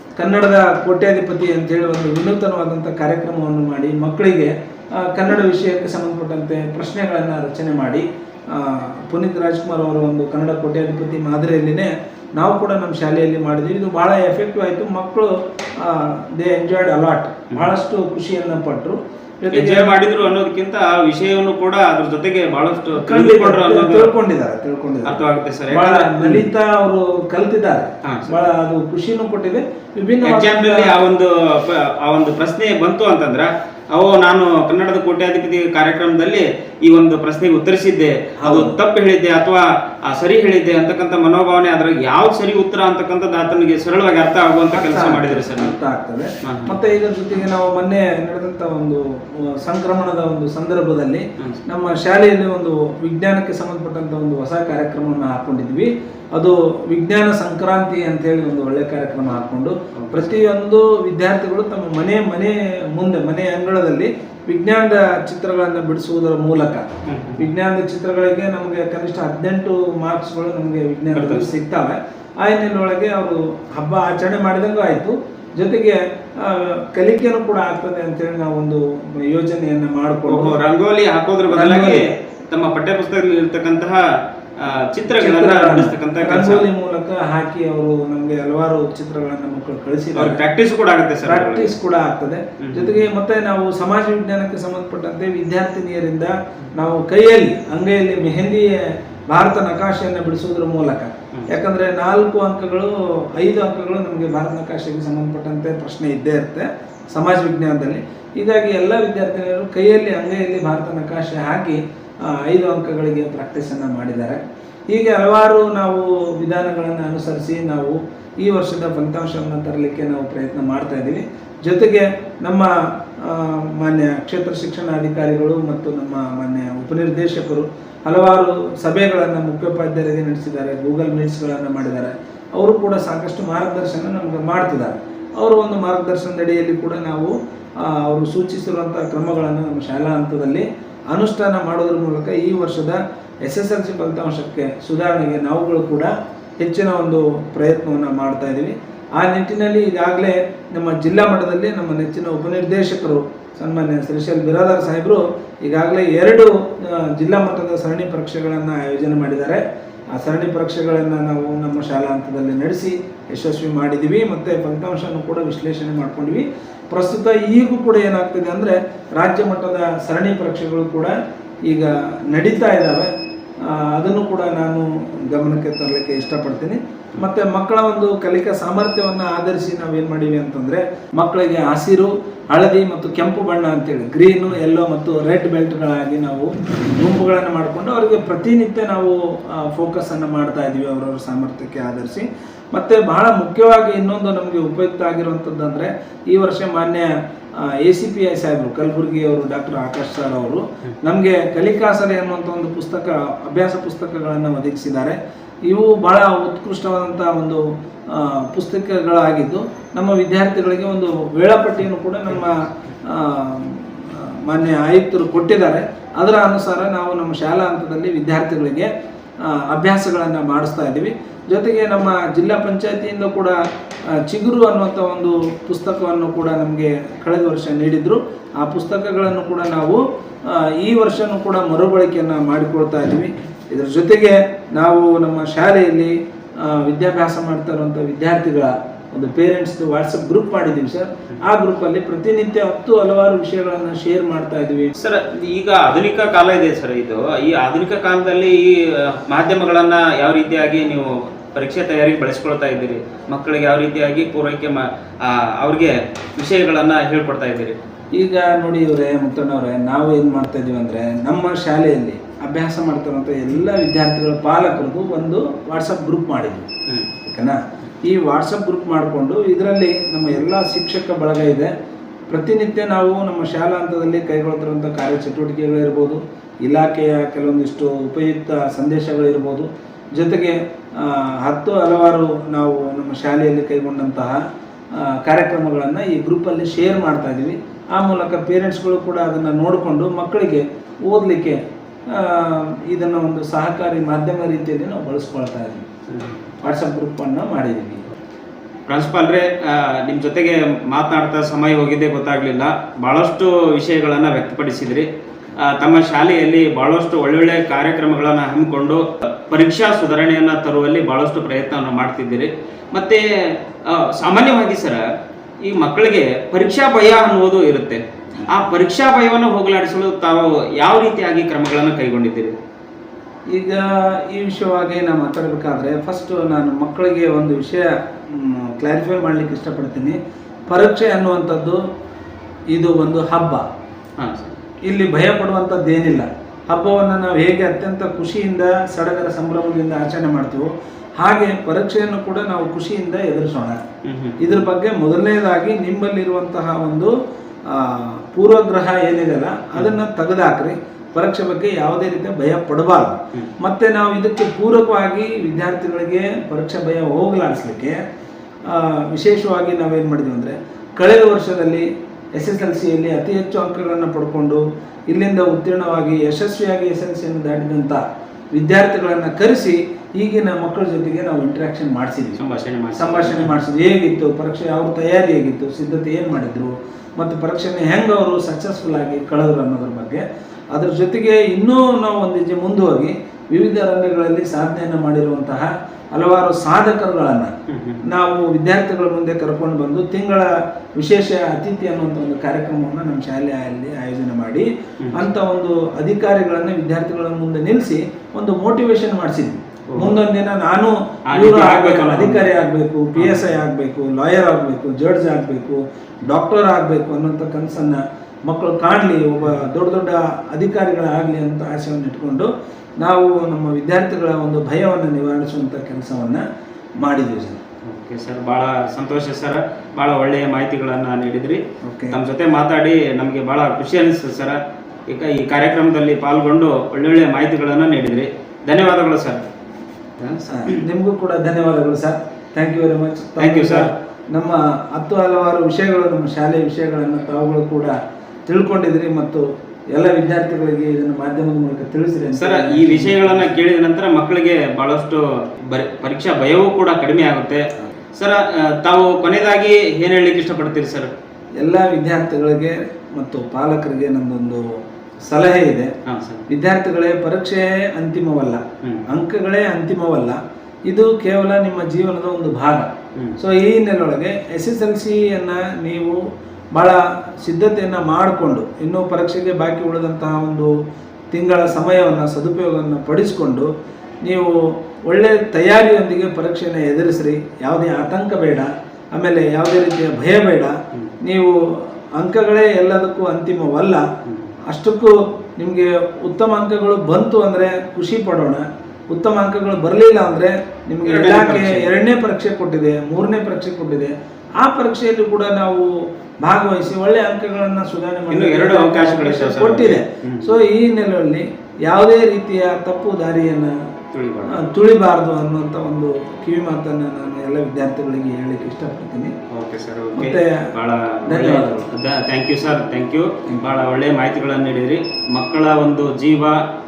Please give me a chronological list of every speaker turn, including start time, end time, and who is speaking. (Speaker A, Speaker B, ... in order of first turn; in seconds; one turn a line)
Speaker A: 0.2-20.0
Speaker B: 19.5-24.1
Speaker A: 22.9-31.0
Speaker B: 25.0-26.5
Speaker B: 30.2-45.8
Speaker A: 38.4-38.8
Speaker A: 44.7-80.5
Speaker B: 46.4-46.8
Speaker B: 60.0-60.4
Speaker B: 67.1-67.5
Speaker B: 71.1-71.5
Speaker B: 80.3-84.0
Speaker A: 81.5-82.1
Speaker B: 84.6-86.7
Speaker A: 85.1-90.4
Speaker B: 90.2-91.7
Speaker A: 91.2-159.6
Speaker B: 92.6-93.0
Speaker A: 160.1-171.1
Speaker A: 171.7-173.1
Speaker A: 173.7-197.1
Speaker A: 197.6-205.2
Speaker A: 205.7-218.9
Speaker B: 212.4-212.9
Speaker A: 219.4-223.5
Speaker A: 224.2-244.9
Speaker B: 245.0-257.8
Speaker A: 258.1-266.7
Speaker A: 267.2-271.7
Speaker A: 272.3-284.4
Speaker A: 284.9-291.6
Speaker A: 292.1-295.8
Speaker B: 296.1-296.4
Speaker A: 296.6-298.1
Speaker B: 298.9-305.1
Speaker B: 305.6-315.0
Speaker B: 315.7-322.5
Speaker A: 323.5-330.2
Speaker A: 330.7-331.8
Speaker A: 332.7-333.6
Speaker B: 334.2-334.6
Speaker A: 334.9-340.7
Speaker A: 341.2-343.8
Speaker B: 344.0-344.6
Speaker A: 344.4-347.1
Speaker A: 347.7-358.0
Speaker A: 358.7-361.9
Speaker A: 362.4-368.0
Speaker A: 368.5-372.4
Speaker B: 372.4-373.5
Speaker A: 372.9-380.2
Speaker A: 380.7-387.5
Speaker B: 387.7-388.0
Speaker A: 388.1-412.5
Speaker B: 399.9-400.2
Speaker B: 401.3-402.5
Speaker B: 403.1-403.5
Speaker A: 413.0-416.4
Speaker A: 417.0-417.6
Speaker B: 417.9-429.4
Speaker A: 421.8-422.2
Speaker B: 430.2-430.8
Speaker A: 430.5-437.9
Speaker B: 433.4-433.9
Speaker A: 438.5-443.6
Speaker B: 442.4-447.6
Speaker B: 448.2-451.1
Speaker A: 451.6-454.6
Speaker A: 455.2-455.9
Speaker B: 456.1-456.4
Speaker A: 456.5-466.2
Speaker A: 466.7-470.7
Speaker A: 471.3-473.7
Speaker A: 474.2-481.6
Speaker A: 482.2-484.0
Speaker B: 484.3-484.5
Speaker A: 484.7-495.9
Speaker B: 491.0-491.9
Speaker A: 496.4-503.7
Speaker B: 498.3-500.5
Speaker B: 504.1-504.6
Speaker A: 504.5-509.3
Speaker B: 509.5-516.6
Speaker A: 510.1-510.6
Speaker A: 511.3-511.9